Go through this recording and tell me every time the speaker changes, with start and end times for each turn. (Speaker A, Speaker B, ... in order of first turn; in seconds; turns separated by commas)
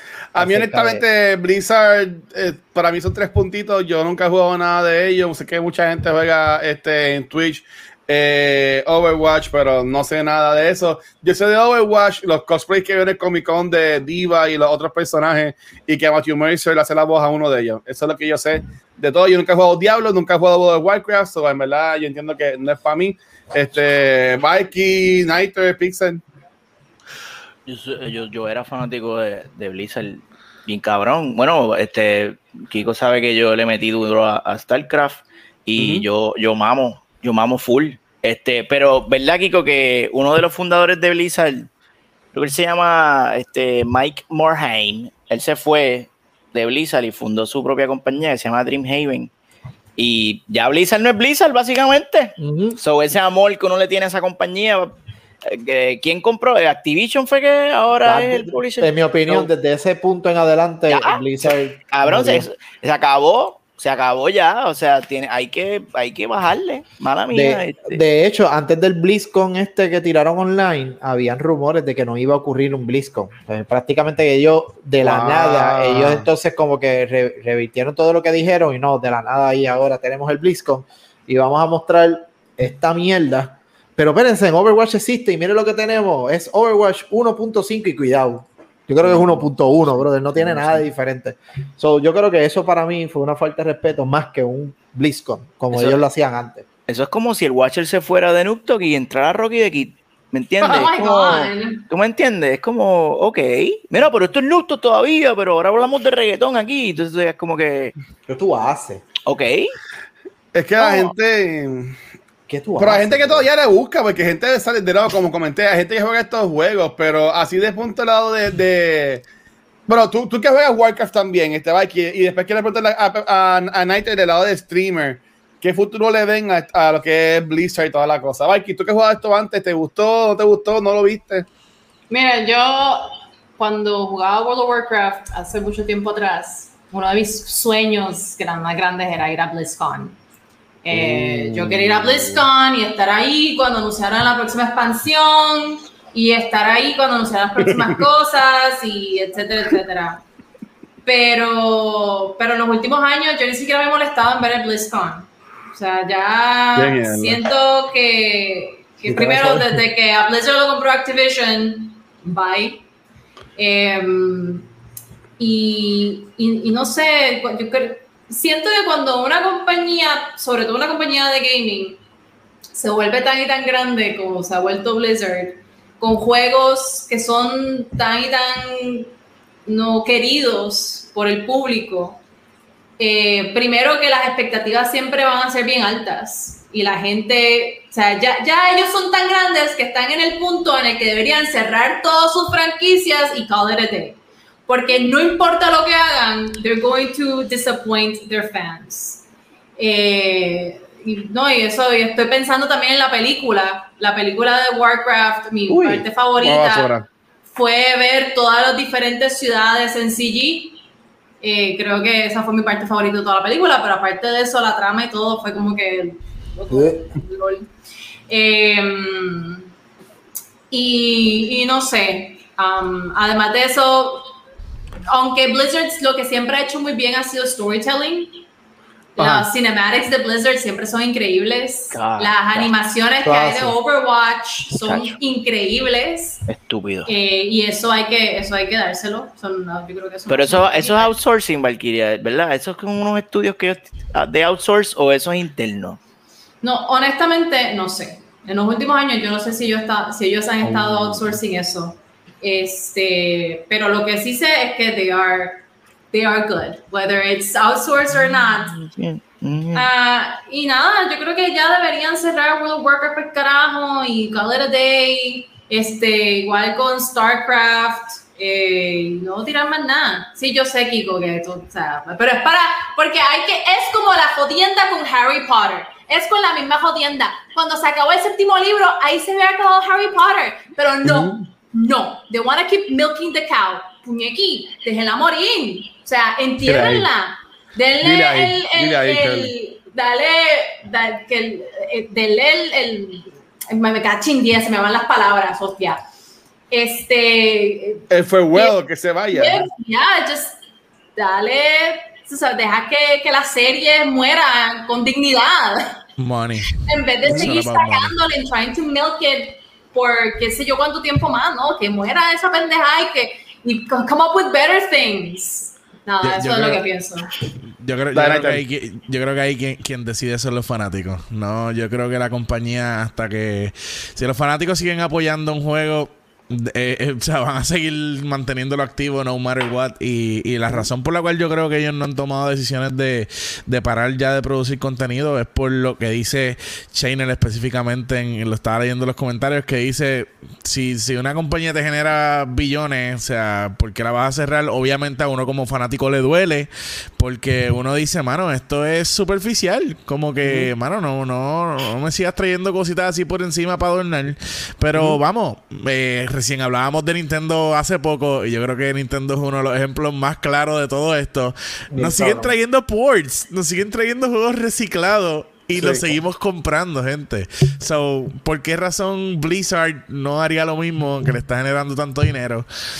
Speaker A: 0.3-26.2, Speaker B: 0.4-1.0, Speaker C: 27.6-41.7, Speaker A: 35.8-36.0, Speaker C: 42.3-49.3, Speaker C: 50.0-54.9, Speaker B: 52.4-52.8, Speaker C: 55.4-59.5, Speaker B: 58.0-62.5, Speaker C: 60.9-68.0, Speaker B: 67.3-96.7, Speaker A: 75.0-76.3, Speaker C: 89.0-90.9, Speaker C: 95.7-96.0, Speaker C: 96.9-107.9, Speaker D: 100.6-101.8, Speaker B: 108.3-109.0, Speaker C: 109.2-109.7, Speaker A: 110.5-112.0, Speaker D: 110.8-111.1, Speaker B: 112.5-113.5, Speaker A: 112.8-119.2, Speaker A: 119.9-131.4, Speaker D: 132.1-140.2, Speaker D: 140.8-150.2, Speaker B: 140.9-142.3, Speaker D: 151.0-162.8, Speaker A: 156.8-157.4, Speaker A: 159.1-159.7, Speaker D: 163.6-164.7, Speaker D: 165.4-172.0, Speaker D: 172.7-179.1, Speaker D: 179.7-182.2, Speaker D: 183.0-199.2, Speaker D: 199.8-206.9, Speaker B: 205.7-206.0, Speaker A: 206.4-207.1, Speaker D: 207.5-210.8, Speaker D: 211.4-217.7, Speaker B: 216.7-217.0, Speaker D: 218.3-219.7, Speaker D: 220.7-224.3, Speaker D: 225.1-228.4, Speaker D: 229.2-236.4, Speaker A: 229.2-229.5, Speaker C: 231.9-232.7, Speaker B: 233.2-233.8, Speaker C: 234.7-235.2, Speaker C: 236.5-237.1, Speaker D: 237.1-241.2, Speaker C: 240.3-246.0, Speaker D: 246.6-258.8, Speaker A: 250.6-251.4, Speaker C: 258.7-259.9, Speaker D: 259.7-296.0, Speaker A: 281.0-281.4, Speaker A: 286.6-287.1, Speaker A: 288.0-289.5, Speaker D: 296.7-298.7, Speaker A: 298.1-299.7, Speaker D: 299.3-300.6, Speaker D: 301.1-306.0, Speaker E: 306.2-308.1, Speaker D: 306.9-317.3, Speaker E: 316.2-316.8, Speaker E: 317.6-372.7, Speaker A: 318.1-318.6, Speaker A: 350.4-350.7, Speaker B: 361.9-362.5, Speaker A: 365.7-366.0